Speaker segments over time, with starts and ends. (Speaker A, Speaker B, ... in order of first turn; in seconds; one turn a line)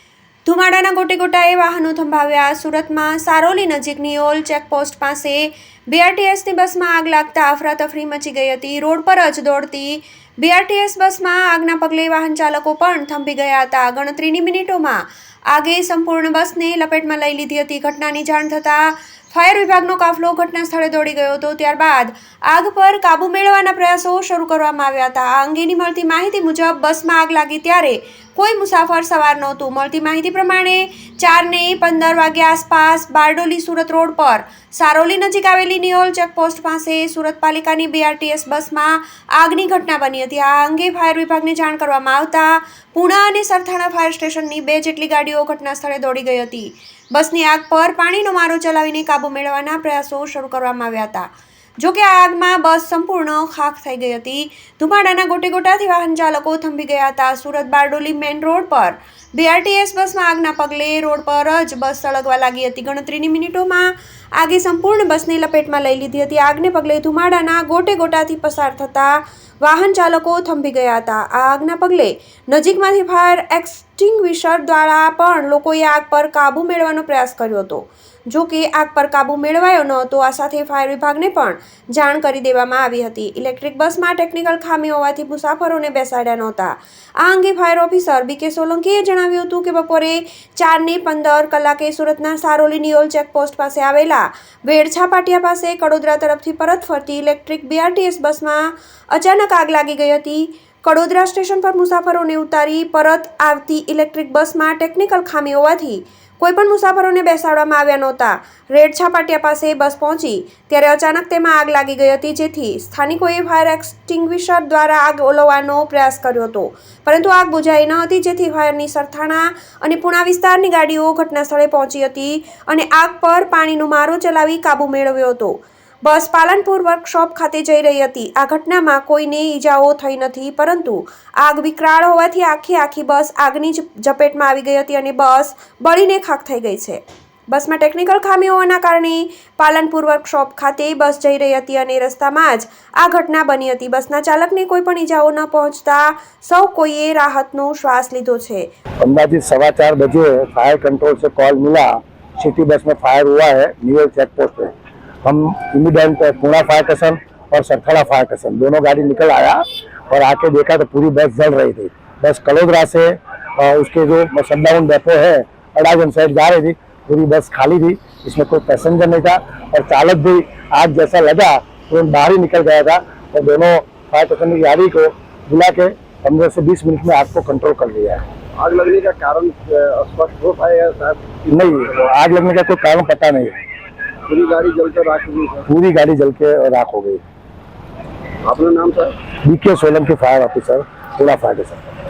Speaker A: 0.5-137.0
Speaker A: 137.5-148.7
Speaker B: 149.0-154.7
Speaker B: 155.2-178.2
Speaker C: 178.6-181.4
Speaker B: 181.5-183.6
Speaker C: 184.3-185.7
Speaker B: 185.7-187.2
Speaker C: 188.4-189.1
Speaker B: 189.4-191.8